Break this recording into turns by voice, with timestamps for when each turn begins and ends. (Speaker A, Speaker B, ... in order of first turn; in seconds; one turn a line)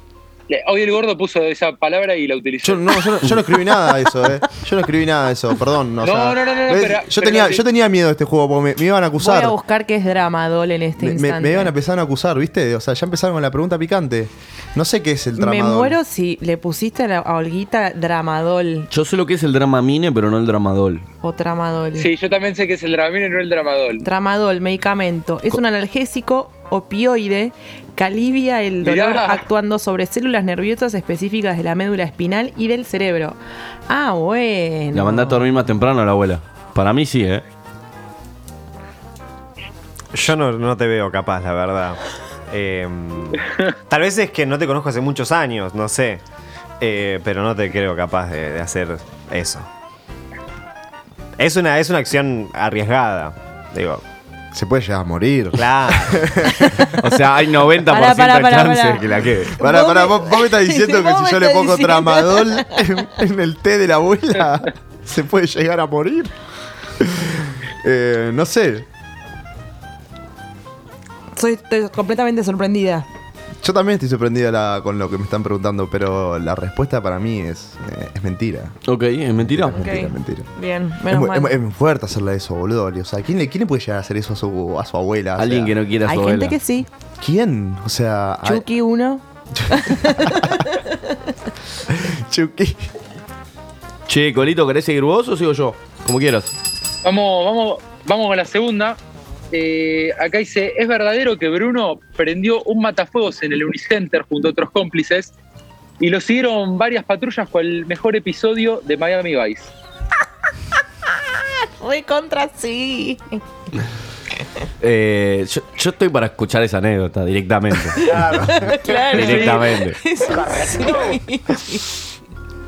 Speaker A: 0.5-3.0
Speaker B: 2.6-9.6
Speaker A: 6.0-7.6
Speaker C: 9.2-11.7
Speaker B: 11.0-16.0
Speaker C: 15.4-18.9
Speaker D: 18.9-21.0
Speaker C: 21.2-22.1
Speaker A: 22.0-24.0
Speaker C: 24.0-33.4
Speaker A: 28.8-29.4
Speaker C: 33.9-35.5
Speaker D: 34.9-37.4
Speaker E: 40.1-42.0
Speaker E: 42.5-46.2
Speaker E: 46.8-49.7
Speaker E: 51.4-54.0
Speaker B: 54.5-57.0
Speaker E: 55.5-56.3
Speaker D: 57.0-59.5
Speaker C: 57.9-62.8
Speaker B: 59.5-66.3
Speaker B: 67.0-68.9
Speaker C: 71.3-73.0
Speaker B: 73.6-78.8
Speaker D: 78.9-79.8
Speaker B: 79.4-80.5
Speaker C: 79.8-81.5
Speaker B: 81.1-85.8
Speaker D: 85.4-86.6
Speaker C: 86.0-86.9
Speaker B: 87.2-88.7
Speaker C: 88.4-91.0
Speaker B: 89.5-90.7
Speaker B: 91.9-92.9
Speaker D: 94.1-96.5
Speaker A: 97.0-99.0
Speaker A: 99.5-105.3
Speaker A: 106.0-109.7
Speaker C: 111.8-113.4
Speaker D: 114.8-118.6
Speaker C: 118.0-121.8
Speaker D: 119.1-120.0